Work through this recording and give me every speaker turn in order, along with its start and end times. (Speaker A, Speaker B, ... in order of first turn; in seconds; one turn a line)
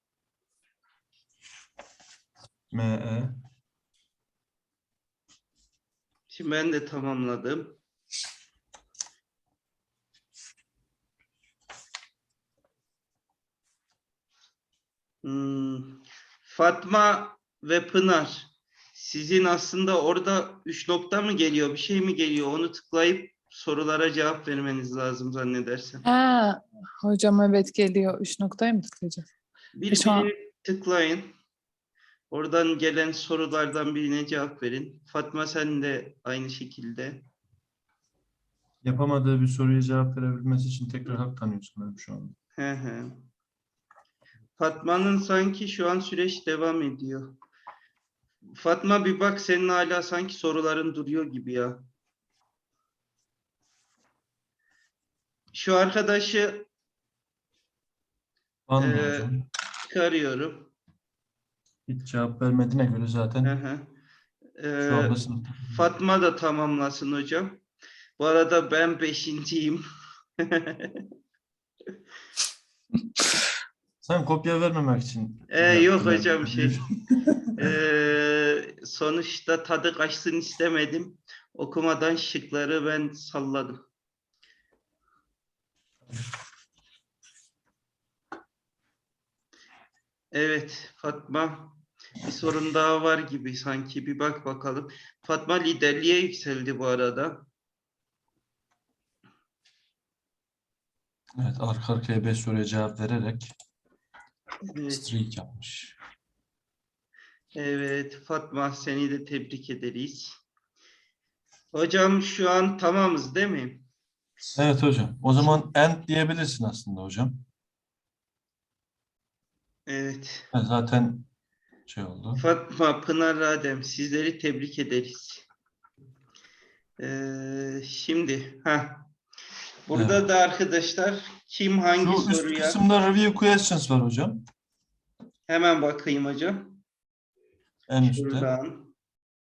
Speaker A: 2.7-3.3
Speaker B: 6.3-7.8
Speaker B: 15.2-26.0
Speaker C: 26.0-29.3
Speaker B: 29.8-31.3
Speaker C: 29.9-30.3
Speaker B: 32.3-37.2
Speaker A: 38.8-42.3
Speaker B: 42.6-43.2
Speaker B: 44.6-47.3
Speaker B: 48.6-51.8
Speaker B: 55.5-56.7
Speaker A: 58.7-59.4
Speaker B: 58.8-59.3
Speaker B: 59.9-60.7
Speaker A: 61.9-63.5
Speaker B: 63.4-63.9
Speaker B: 64.6-67.6
Speaker A: 64.8-65.8
Speaker B: 68.2-69.8
Speaker B: 70.4-71.0
Speaker A: 74.0-77.7
Speaker B: 75.5-76.8
Speaker B: 77.6-83.8
Speaker B: 90.3-97.5
Speaker A: 101.4-103.5
Speaker B: 104.7-105.0
Speaker A: 104.9-106.0
Speaker B: 107.5-110.4
Speaker B: 111.7-113.8
Speaker A: 114.5-117.4
Speaker B: 119.9-120.5
Speaker A: 120.5-121.3
Speaker A: 121.9-122.4
Speaker B: 122.4-125.4
Speaker B: 127.0-129.1
Speaker B: 129.9-132.8
Speaker A: 129.9-130.2
Speaker A: 132.0-134.4
Speaker B: 135.5-136.8
Speaker A: 137.9-138.5
Speaker B: 138.0-138.9